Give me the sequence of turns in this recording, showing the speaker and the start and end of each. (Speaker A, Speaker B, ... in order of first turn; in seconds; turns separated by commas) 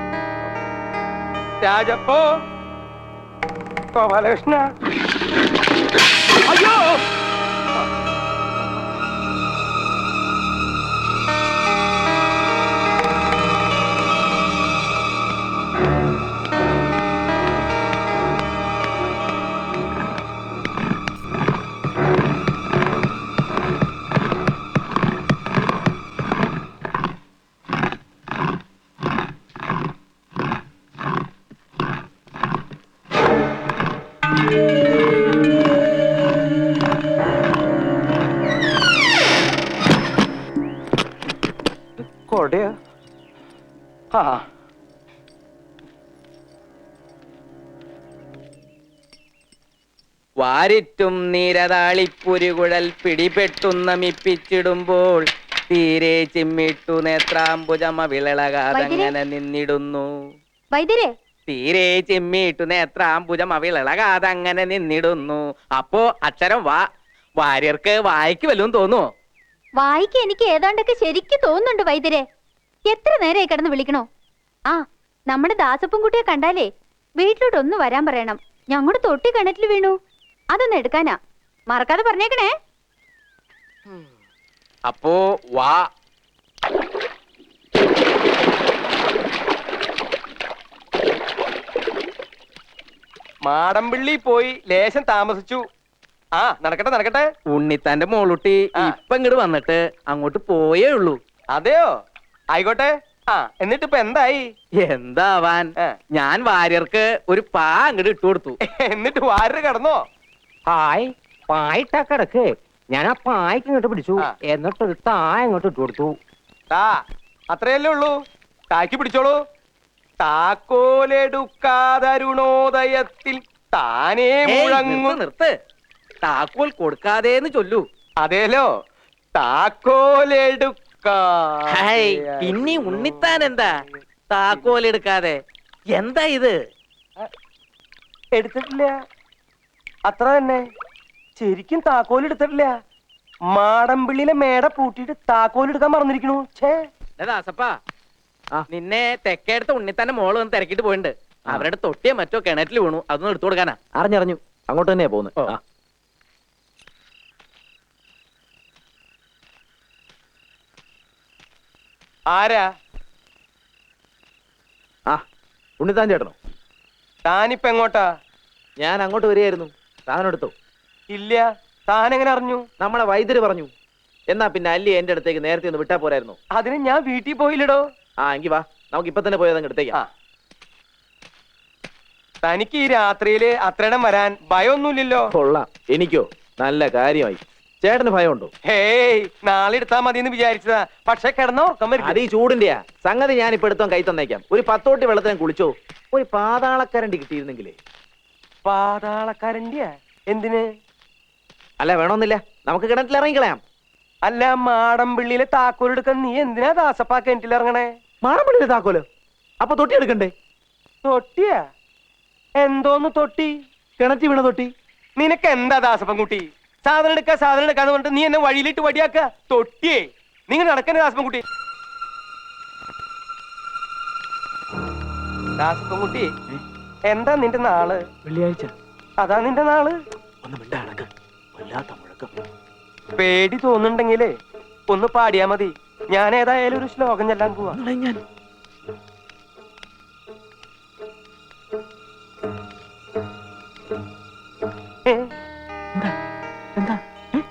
Speaker A: 1.6-2.3, Speaker A: 3.9-4.7, Speaker A: 6.5-7.0, Speaker A: 42.3-42.7, Speaker A: 44.1-44.4, Speaker B: 50.4-55.2, Speaker B: 55.7-58.6, Speaker C: 58.7-59.1, Speaker B: 59.3-60.0, Speaker C: 60.7-61.1, Speaker B: 61.6-65.3, Speaker B: 65.9-66.8, Speaker B: 67.4-69.0, Speaker C: 69.8-72.2, Speaker C: 72.8-74.0, Speaker C: 74.7-76.7, Speaker C: 77.2-79.9, Speaker C: 80.5-81.2, Speaker C: 81.7-82.5, Speaker B: 84.9-85.8, Speaker A: 93.4-95.6, Speaker A: 96.4-97.3, Speaker B: 97.5-101.2, Speaker A: 101.5-101.9, Speaker A: 102.5-104.4, Speaker B: 104.8-108.5, Speaker A: 108.6-110.0, Speaker D: 110.8-116.1, Speaker A: 116.7-117.0, Speaker A: 117.5-118.1, Speaker A: 118.7-119.3, Speaker A: 120.2-125.2, Speaker B: 124.5-125.5, Speaker B: 126.2-127.8, Speaker A: 128.2-128.7, Speaker A: 129.3-133.7, Speaker B: 131.7-133.7, Speaker B: 134.3-135.4, Speaker A: 134.5-134.8, Speaker B: 135.9-136.6, Speaker A: 138.3-138.9, Speaker A: 140.1-140.6, Speaker A: 141.4-142.7, Speaker A: 143.5-146.8, Speaker B: 147.2-147.8, Speaker B: 148.7-153.8, Speaker E: 153.9-155.6, Speaker A: 162.3-162.6, Speaker E: 165.8-166.3, Speaker A: 167.2-168.1, Speaker E: 168.8-170.5, Speaker A: 171.1-172.6, Speaker E: 172.8-173.7, Speaker E: 174.3-176.3, Speaker A: 176.5-177.8, Speaker E: 178.2-180.0, Speaker A: 182.4-185.3, Speaker E: 185.3-188.5, Speaker A: 188.6-192.2, Speaker E: 192.0-197.8, Speaker A: 198.6-200.7, Speaker E: 201.8-203.6, Speaker A: 204.2-207.9, Speaker E: 208.2-209.1, Speaker E: 209.6-210.3, Speaker A: 211.0-211.6, Speaker A: 212.6-213.5, Speaker E: 214.0-214.7, Speaker A: 215.2-221.4, Speaker A: 225.6-226.3, Speaker A: 227.1-228.0, Speaker E: 228.3-228.7, Speaker A: 229.2-229.9, Speaker E: 230.5-231.1, Speaker E: 231.6-232.3, Speaker A: 233.2-234.3, Speaker A: 234.9-237.8, Speaker E: 237.8-238.2